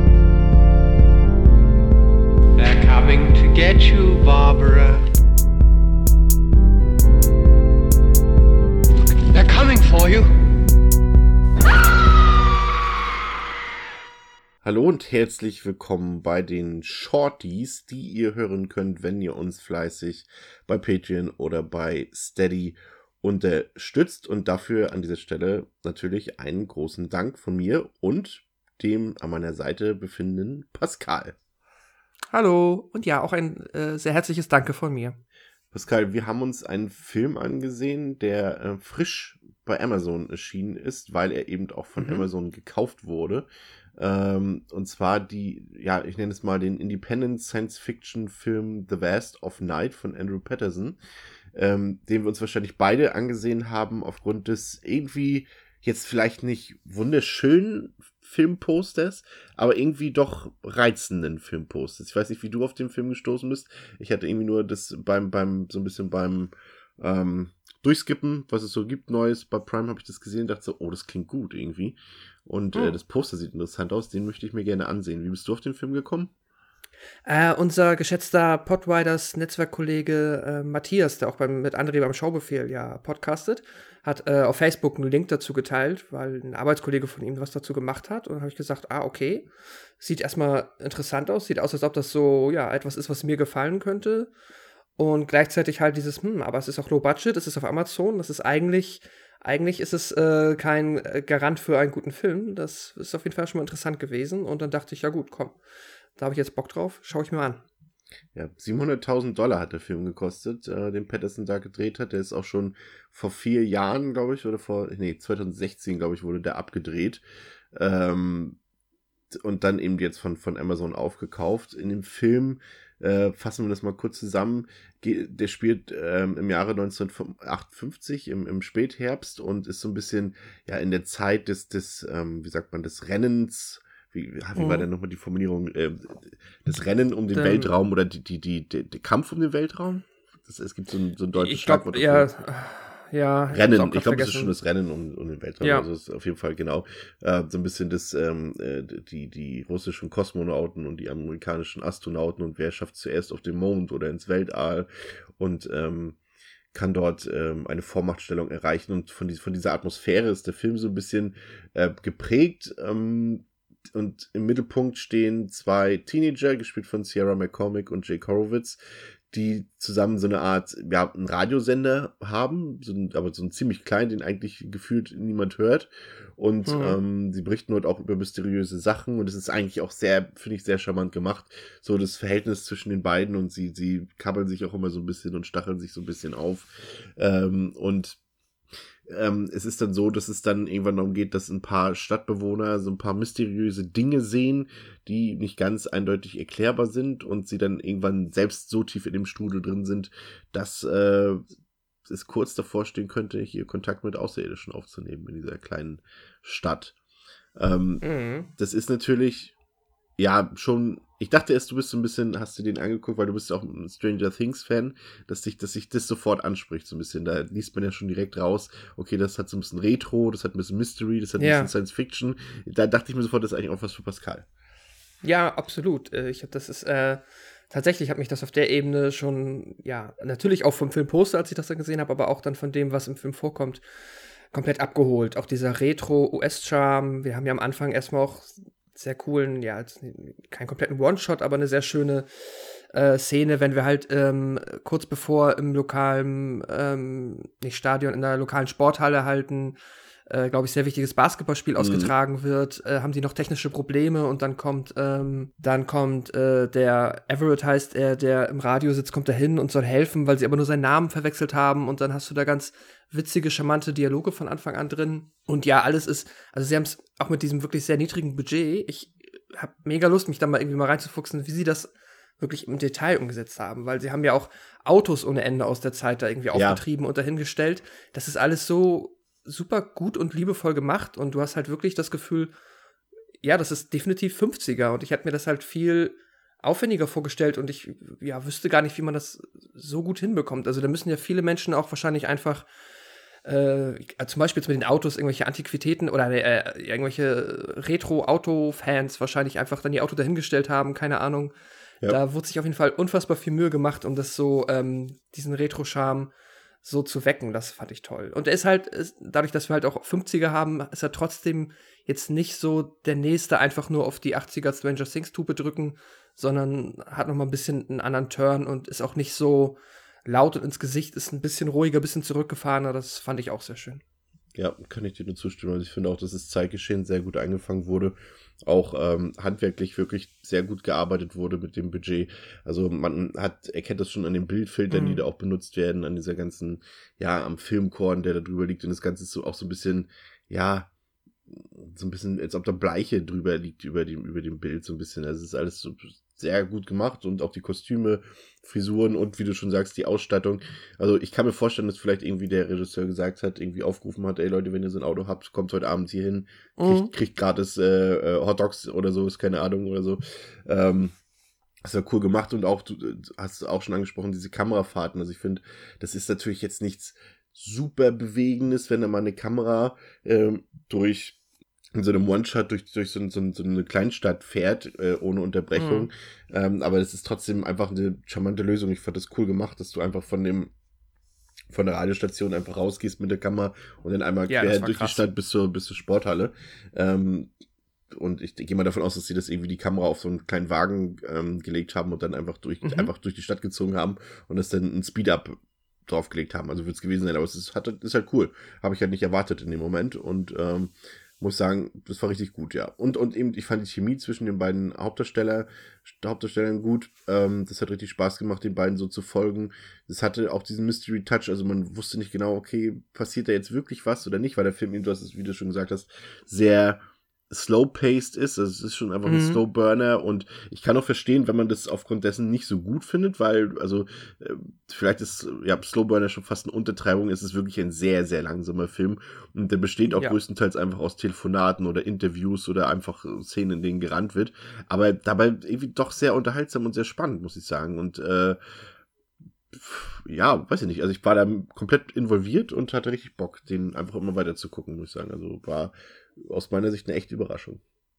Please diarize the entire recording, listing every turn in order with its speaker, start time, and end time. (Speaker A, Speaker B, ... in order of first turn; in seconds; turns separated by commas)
Speaker A: 2.6-5.0, Speaker A: 9.3-10.3, Speaker B: 14.6-31.4, Speaker C: 32.3-35.2, Speaker B: 35.7-51.0, Speaker C: 42.0-42.2, Speaker B: 51.5-76.3, Speaker C: 72.7-73.0, Speaker C: 77.3-89.5, Speaker C: 90.0-94.3, Speaker C: 95.0-105.6, Speaker C: 106.2-107.6, Speaker B: 108.3-117.2, Speaker B: 117.7-118.6, Speaker B: 119.3-142.3, Speaker C: 134.6-134.9, Speaker C: 137.3-137.7, Speaker C: 141.3-144.6, Speaker B: 143.5-156.2, Speaker C: 145.6-145.9, Speaker B: 156.7-168.8, Speaker B: 169.3-188.2, Speaker C: 176.7-177.0, Speaker B: 189.1-201.4, Speaker B: 202.1-206.9, Speaker B: 207.6-208.1, Speaker C: 208.0-208.5, Speaker B: 208.6-209.5, Speaker B: 210.2-224.5, Speaker C: 221.4-221.7, Speaker C: 225.2-233.8, Speaker C: 234.5-242.3, Speaker C: 242.9-282.5, Speaker B: 251.8-252.1, Speaker B: 276.5-276.8, Speaker C: 283.4-292.7, Speaker C: 293.4-301.6, Speaker C: 302.1-306.3, Speaker C: 306.8-324.0, Speaker B: 324.6-340.9, Speaker C: 334.9-335.2, Speaker B: 341.5-361.1, Speaker C: 356.8-357.1, Speaker B: 361.9-371.4, Speaker B: 372.0-380.7, Speaker C: 375.8-376.1, Speaker B: 381.7-387.5, Speaker C: 384.5-385.2, Speaker B: 388.1-395.5, Speaker C: 392.8-393.1, Speaker B: 396.1-438.6, Speaker C: 419.3-419.6, Speaker C: 430.1-430.4, Speaker B: 439.7-447.8